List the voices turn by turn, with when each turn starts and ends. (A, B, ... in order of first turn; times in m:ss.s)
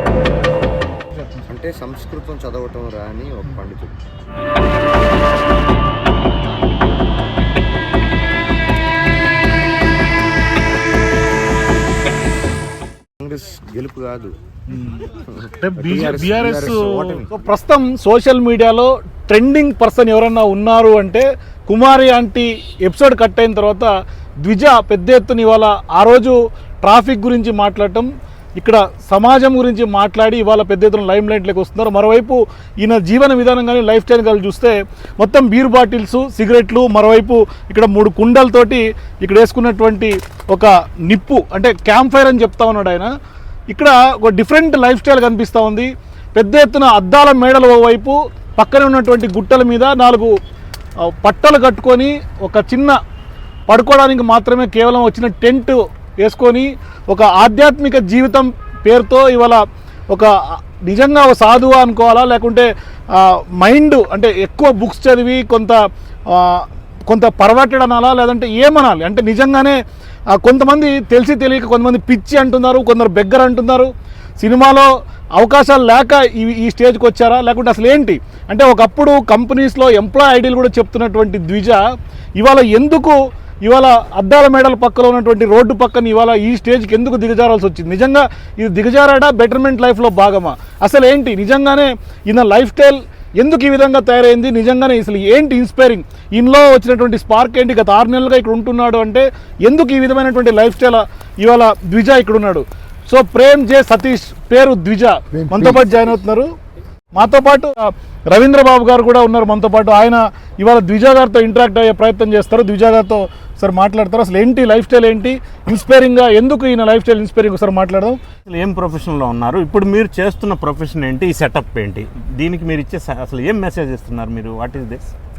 0:01.1-0:01.4 A
0:01.4-0:04.0 B
0:13.2-0:14.4 B
0:14.7-0:43.1 A
0:15.2-0:17.3 B
0:43.7-0:50.4 A
0:51.0-0:53.0 A
0:53.7-1:09.8 A
1:10.3-1:21.8 A
1:22.4-1:46.5 A
1:47.1-1:58.2 A
1:58.5-2:05.0 C